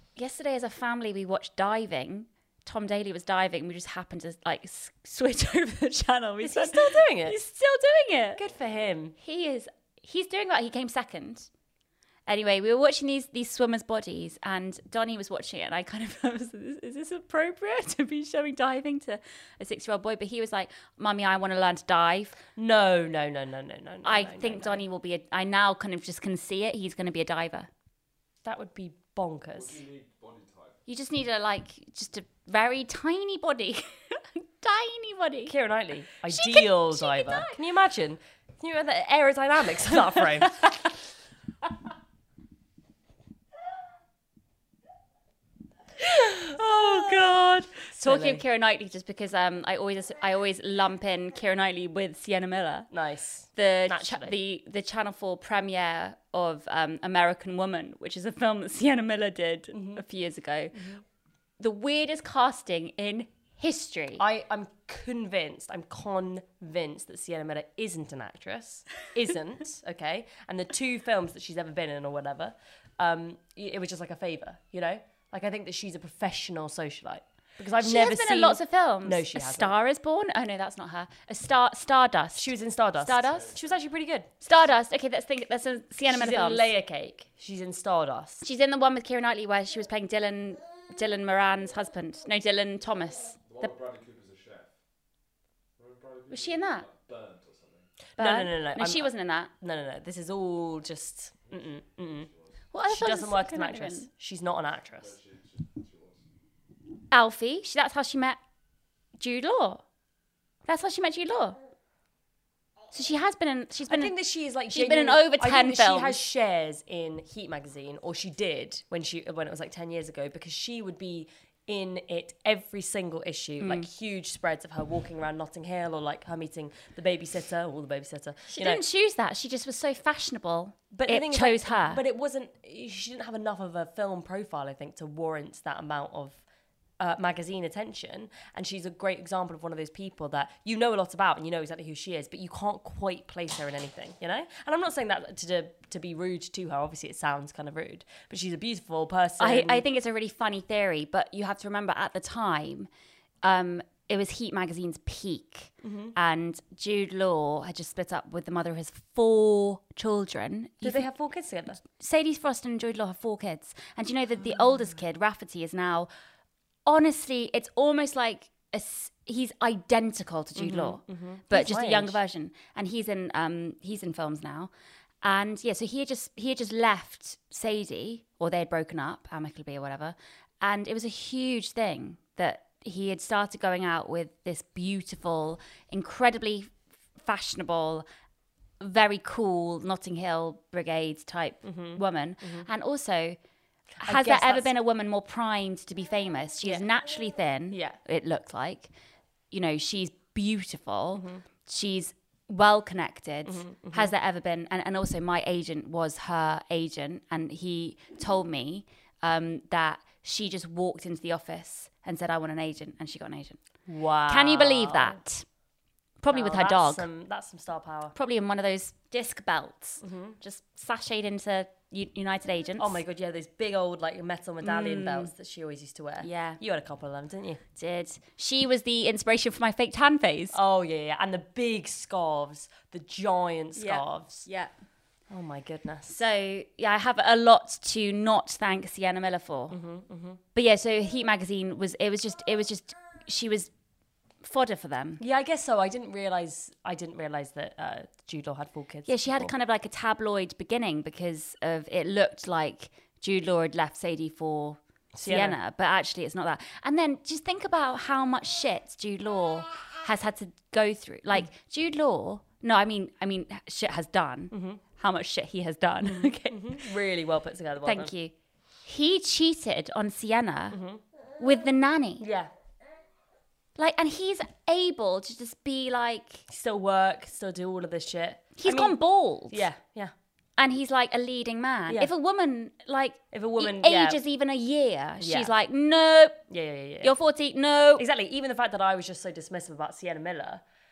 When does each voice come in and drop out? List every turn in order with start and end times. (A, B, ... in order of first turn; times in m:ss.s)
0:00.2-0:08.4 A
0:06.4-0:07.4 B
0:08.4-0:09.2 B
0:09.2-0:11.5 A
0:12.3-0:22.4 A
0:22.6-0:24.8 B
0:24.0-0:27.7 A
0:28.4-0:29.8 B
0:29.5-0:30.8 C
0:30.9-0:35.5 A
0:35.5-0:40.7 B
0:36.3-0:37.6 A
0:46.0-0:48.4 B
0:47.8-0:52.9 A
0:52.9-0:54.4 B
0:53.5-1:00.8 A
0:59.7-1:00.0 B
1:00.7-1:01.0 B
1:01.6-1:04.2 A
1:04.2-1:19.7 B
1:17.8-1:23.5 A
1:22.3-1:24.3 B
1:23.2-1:23.8 C
1:24.4-1:26.7 A
1:26.0-1:28.4 B
1:28.4-1:33.7 A
1:33.5-1:34.7 C
1:35.8-1:37.9 C
1:36.3-1:36.8 A
1:38.2-1:39.5 A
1:38.2-1:42.3 B
1:42.1-1:42.5 C
1:42.7-1:44.1 A
1:42.9-1:45.1 B
1:45.0-1:46.2 C
1:47.1-1:48.4 A
1:49.2-1:49.8 A
1:50.6-1:51.6 A
1:52.9-1:54.1 A
1:53.9-2:08.8 B
1:54.7-1:56.2 A
2:03.6-2:03.8 A
2:08.5-2:12.0 A
2:10.9-2:16.4 B
2:17.0-2:29.8 B
2:29.4-2:32.9 A
2:33.4-2:41.0 A
2:35.8-2:36.1 B
2:40.8-2:41.8 B
2:42.0-2:46.1 A
2:46.8-2:54.7 A
2:50.6-2:52.2 B
2:55.2-3:08.0 A
3:08.8-3:13.4 A
3:11.6-3:12.7 B
3:13.9-3:14.7 B
3:14.0-3:18.9 A
3:17.7-3:18.0 B
3:19.5-3:33.6 A
3:21.1-3:21.4 B
3:23.4-3:24.1 B
3:33.9-3:35.2 B
3:34.3-3:35.4 A
3:36.2-3:37.1 A
3:36.3-3:38.1 B
3:38.1-3:43.0 A
3:40.0-3:40.4 B
3:42.8-3:47.6 B
3:44.6-3:45.3 A
3:46.2-3:46.6 A
3:47.8-3:50.6 A
3:50.5-3:54.5 B
3:53.7-3:54.7 A
3:55.3-3:56.2 B
3:56.1-3:59.8 A
3:59.7-4:00.4 B
4:00.5-4:03.7 A
4:04.4-4:05.2 A
4:05.2-4:09.5 B
4:09.0-4:26.7 A
4:15.1-4:15.6 B
4:24.5-4:24.8 B
4:26.0-4:28.1 B
4:27.8-4:28.3 A
4:28.8-4:30.8 A
4:30.7-4:31.0 B
4:31.4-4:32.2 A
4:32.2-4:32.5 B
4:33.8-4:36.4 A
4:36.5-4:39.0 B
4:38.6-4:39.7 A
4:39.5-4:40.1 B
4:40.6-4:46.4 A
4:43.3-4:44.2 B
4:45.2-4:45.5 B
4:46.5-4:47.1 B
4:47.0-4:48.0 A
4:48.0-4:50.6 B